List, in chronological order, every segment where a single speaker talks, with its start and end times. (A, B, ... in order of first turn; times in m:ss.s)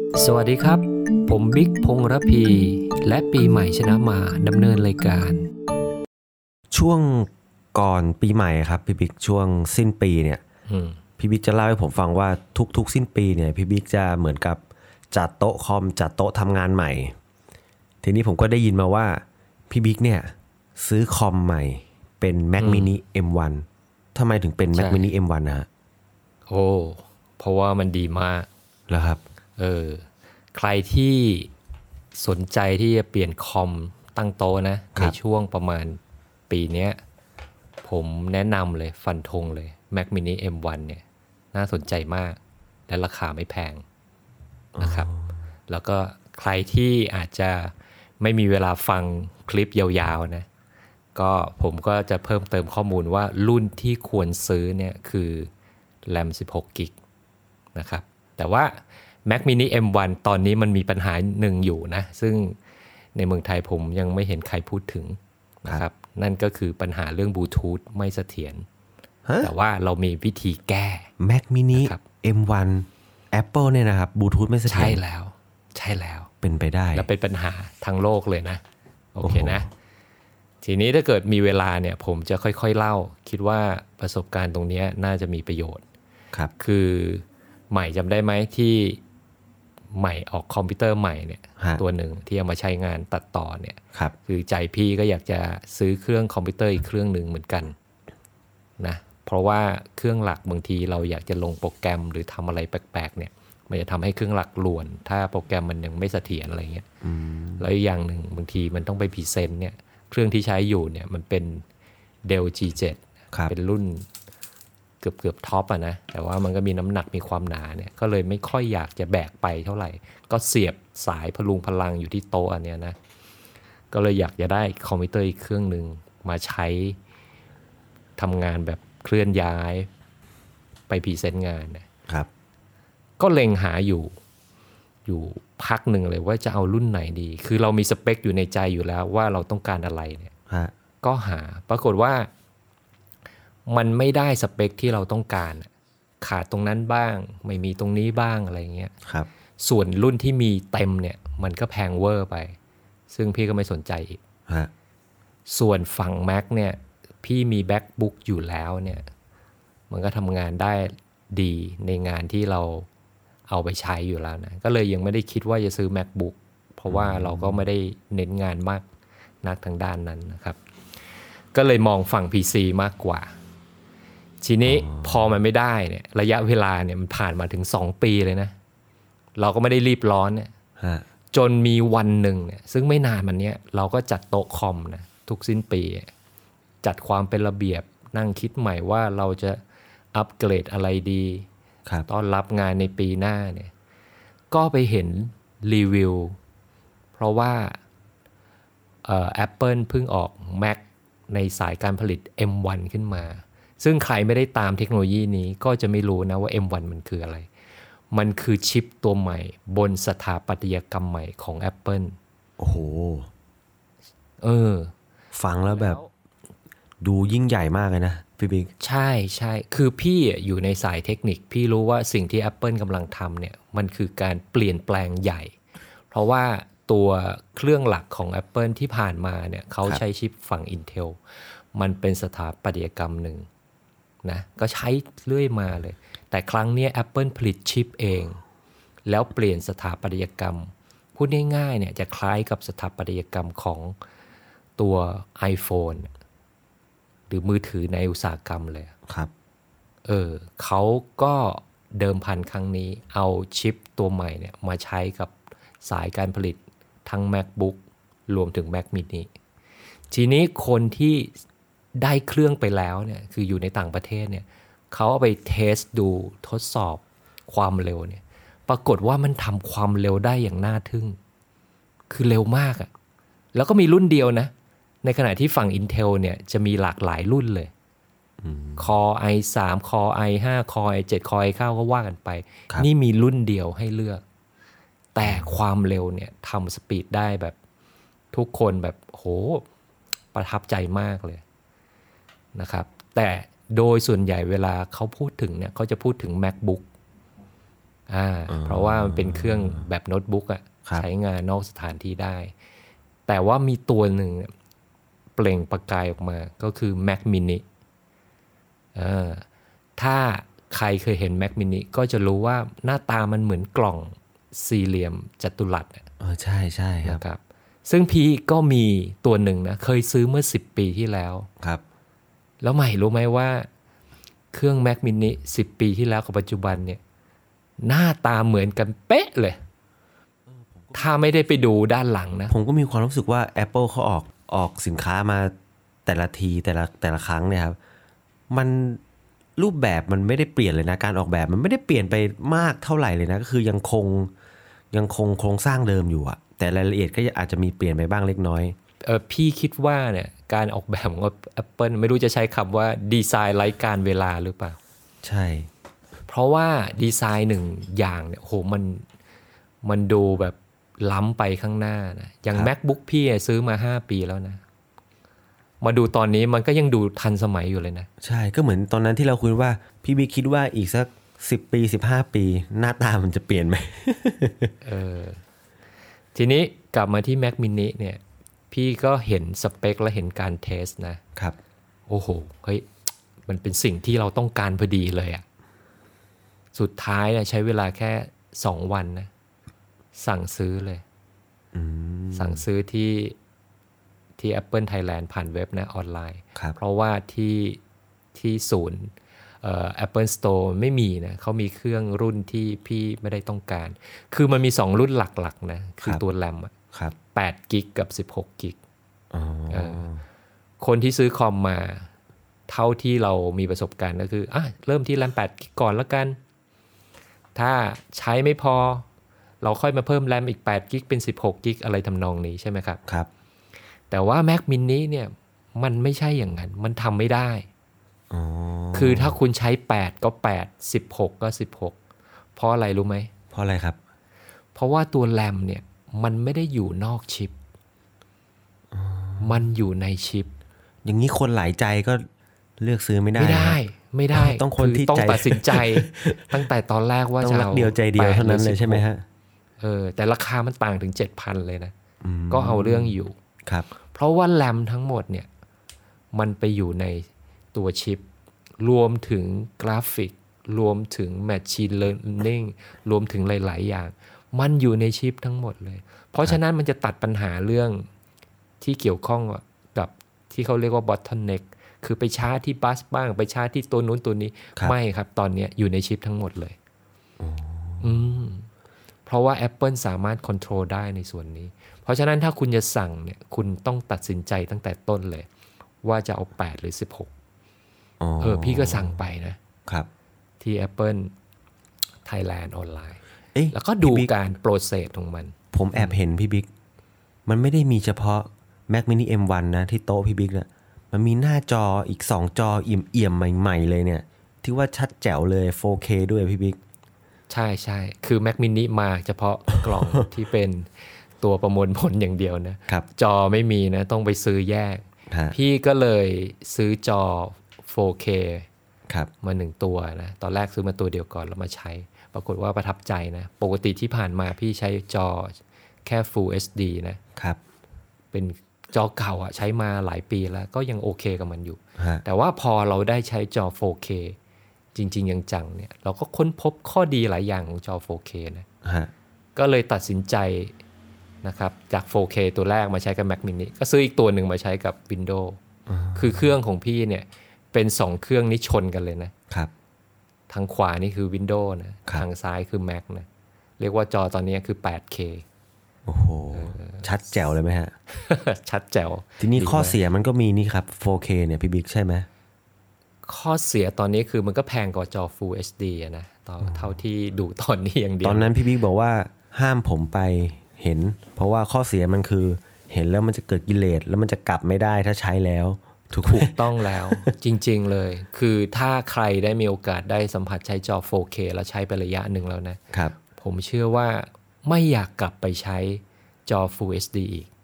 0:00.2-0:05.5 A
0:06.7-0:10.4 B
0:10.7-0:11.0 A
0:11.2-0:17.2 B
0:18.0-0:25.7 B
0:22.6-0:22.9 A
0:24.7-0:25.1 A
0:26.5-0:28.5 A
0:28.9-0:29.2 B
0:29.6-0:31.5 A
0:32.2-0:36.0 A
0:36.5-0:37.0 A
0:37.8-0:42.4 A
0:42.9-0:43.8 A
0:44.8-0:45.2 B
0:44.8-0:45.1 A
0:45.7-0:50.5 A
0:51.2-0:55.5 A
0:56.1-0:56.9 A
0:57.8-1:02.6 A
1:03.2-1:08.6 A
1:09.3-1:09.5 B
1:09.4-1:11.1 A
1:11.2-1:15.0 B
1:11.7-1:12.0 A
1:14.7-1:16.3 A
1:16.4-1:17.1 B
1:16.9-1:18.6 A
1:19.1-1:19.7 A
1:19.2-1:19.6 B
1:20.6-1:25.8 A
1:26.6-1:29.0 A
1:30.0-1:37.7 A
1:38.8-1:46.9 A
1:47.0-1:47.7 B
1:47.6-1:51.6 A
1:52.2-1:54.1 A
1:55.0-2:03.0 A
2:03.9-2:07.0 A
2:08.2-2:09.9 A
2:10.9-2:11.9 A
2:13.2-2:14.1 A
2:15.1-2:20.3 A
2:21.0-2:22.3 A
2:23.7-2:25.7 A
2:26.2-2:28.9 A
2:29.6-2:32.6 A
2:33.1-2:34.2 A
2:35.5-2:39.1 A
2:39.9-2:42.9 A
2:43.5-2:48.9 A
2:46.9-2:47.7 B
2:49.4-2:50.6 A
2:51.5-2:53.3 A
2:54.4-2:58.5 A
2:54.6-2:55.3 B
2:59.4-3:00.5 A
3:00.8-3:01.0 B
3:01.3-3:06.1 A
3:06.8-3:09.6 A
3:10.1-3:11.5 A
3:12.1-3:13.7 A
3:14.5-3:16.4 A
3:17.2-3:17.8 A
3:19.0-3:27.5 A
3:28.1-3:32.2 A
3:32.6-3:33.3 B
3:34.4-3:34.9 A
3:35.3-3:36.0 B
3:35.7-3:36.1 A
3:37.0-3:38.7 B
3:38.8-3:45.6 A
3:46.1-3:51.2 A
3:51.8-3:53.5 A
3:54.2-3:58.4 A
3:59.1-4:04.0 A
4:04.8-4:06.1 A
4:07.3-4:09.0 A
4:10.1-4:15.3 A
4:15.8-4:19.3 A
4:20.1-4:21.4 A
4:22.0-4:31.2 A
4:32.1-4:32.9 A
4:33.5-4:34.5 A
4:35.0-4:37.7 A
4:38.4-4:38.9 B
4:38.8-4:44.2 A
4:45.1-4:47.6 A
4:45.2-4:45.6 B
4:48.3-4:49.7 A
4:50.3-4:51.4 A
4:52.6-4:56.8 A
4:58.1-5:02.5 A
4:58.5-4:59.9 B
5:03.3-5:04.5 A
5:05.4-5:07.6 A
5:09.0-5:09.4 A
5:10.0-5:16.1 A
5:16.2-5:17.2 B
5:17.0-5:21.5 A
5:22.6-5:23.7 A
5:24.5-5:27.0 A
5:27.8-5:29.6 A
5:30.5-5:31.1 B
5:30.9-5:32.5 A
5:32.5-5:35.5 B
5:36.1-5:37.8 B
5:38.5-5:39.0 B
5:39.6-5:44.3 B
5:44.9-5:48.8 B
5:49.0-5:54.8 A
5:55.2-5:55.7 B
5:56.3-5:59.0 A
5:59.8-6:04.6 A
6:05.8-6:08.1 A
6:08.2-6:14.7 B
6:14.8-6:15.4 A
6:16.4-6:21.2 A
6:22.1-6:22.9 A
6:23.5-6:25.4 A
6:26.8-6:29.3 A
6:30.2-6:31.0 A
6:31.7-6:32.6 B
6:32.4-6:33.4 A
6:34.4-6:37.8 A
6:38.4-6:46.7 A
6:47.3-6:48.8 A
6:49.3-6:50.2 B
6:49.7-6:50.1 A
6:50.8-6:52.1 A
6:52.7-6:56.4 A
6:57.6-6:59.0 A
6:59.6-7:03.0 A
7:04.1-7:07.7 A
7:08.3-7:09.4 B
7:08.9-7:12.0 A
7:12.6-7:13.3 A
7:13.5-7:14.0 B
7:14.8-7:17.6 A
7:18.9-7:19.6 B
7:19.4-7:20.5 A
7:21.0-7:22.3 B
7:22.8-7:23.8 B
7:23.4-7:29.0 A
7:24.3-7:26.6 B
7:27.4-7:29.2 B
7:29.8-7:31.9 A
7:32.2-7:33.9 B
7:32.5-7:33.4 A
7:34.1-7:35.5 A
7:36.3-7:38.2 A
7:38.8-7:48.1 A
7:48.8-7:56.8 A
7:57.4-7:58.3 B
7:58.0-7:58.7 A
7:59.3-8:05.5 A
8:06.0-8:07.3 A
8:08.2-8:09.2 B
8:08.4-8:09.6 A
8:10.6-8:11.3 A
8:12.2-8:13.2 A
8:13.6-8:14.3 B
8:13.7-8:16.2 A
8:15.7-8:16.7 B
8:17.5-8:26.8 B
8:27.5-8:38.7 A
8:35.3-8:35.6 B
8:39.4-8:47.2 A
8:48.3-8:54.4 A
8:52.0-8:52.2 B
8:55.0-8:58.7 A
8:58.8-8:59.1 B
8:59.6-9:00.8 A
9:01.4-9:05.6 A
9:05.9-9:06.6 B
9:06.2-9:09.3 A
9:10.5-9:13.3 A
9:13.8-9:15.4 A
9:16.1-9:17.9 B
9:16.5-9:17.1 A
9:18.1-9:20.0 A
9:19.4-9:22.3 B
9:23.2-9:28.5 A
9:26.6-9:27.0 B
9:28.2-9:37.3 B
9:36.2-9:47.5 A